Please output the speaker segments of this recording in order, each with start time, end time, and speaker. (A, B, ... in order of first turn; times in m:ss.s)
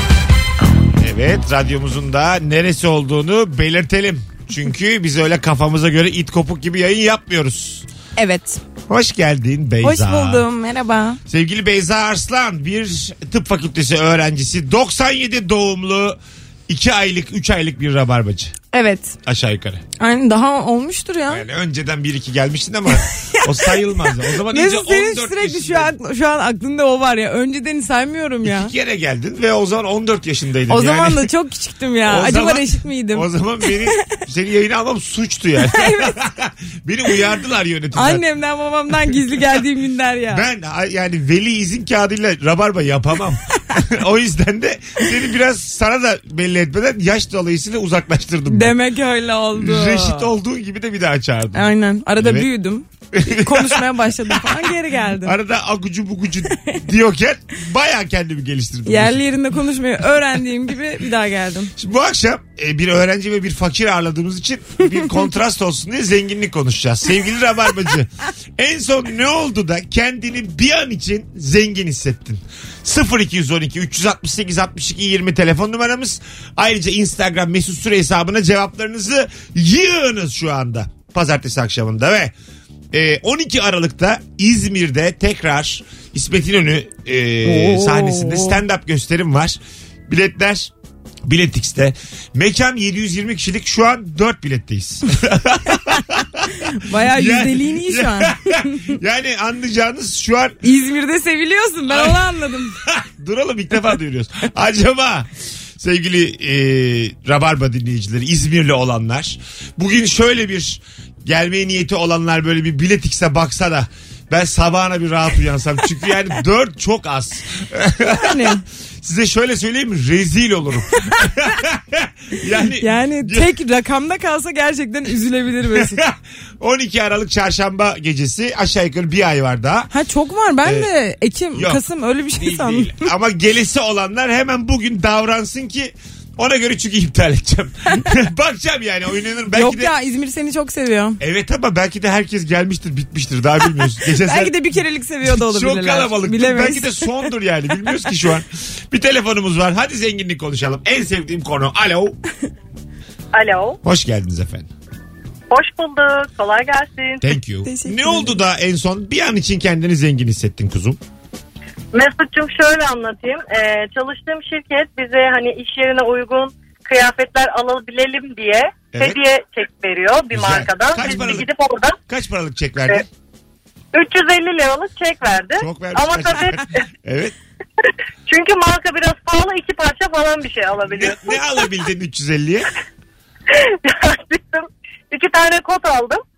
0:01.0-0:07.9 A
0:08.2-0:08.6 B
0:08.9-0:10.4 A
0:09.8-0:11.2 B
0:11.3-0:18.5 A
0:18.7-0:19.2 B
0:19.2-0:19.8 A
0:20.0-0:21.4 B
0:21.3-0:25.9 A
0:23.2-0:28.7 B
0:28.4-0:31.3 A
0:30.7-0:33.8 B
0:32.1-0:38.2 A
0:35.6-0:36.1 B
0:37.9-0:40.4 B
0:39.1-0:39.6 A
0:40.3-0:48.8 A
0:48.5-0:50.3 B
0:49.6-0:52.5 A
0:51.5-0:55.4 B
0:53.1-0:54.7 A
0:55.2-0:59.2 A
0:58.8-1:01.7 B
1:01.8-1:22.3 A
1:22.9-1:30.7 A
1:27.4-1:28.6 B
1:31.2-1:40.6 A
1:36.6-1:38.9 B
1:40.6-1:42.8 B
1:41.9-2:03.5 A
1:58.0-1:58.6 B
2:02.8-2:06.0 B
2:05.7-2:09.9 A
2:09.9-2:13.1 B
2:10.6-2:10.9 A
2:12.3-2:19.9 A
2:19.5-2:21.2 B
2:21.2-2:24.6 A
2:24.1-2:27.1 B
2:25.2-2:32.2 A
2:33.3-2:33.8 C
2:33.8-2:34.7 A
2:35.5-2:37.2 C
2:37.2-2:41.0 A
2:37.6-2:38.4 B
2:41.9-2:52.0 C
2:50.3-2:51.5 A
2:52.1-2:53.0 A
2:53.9-2:56.6 C
2:55.6-2:57.3 A
2:58.3-3:01.4 C
3:00.9-3:02.7 A
3:03.5-3:06.2 C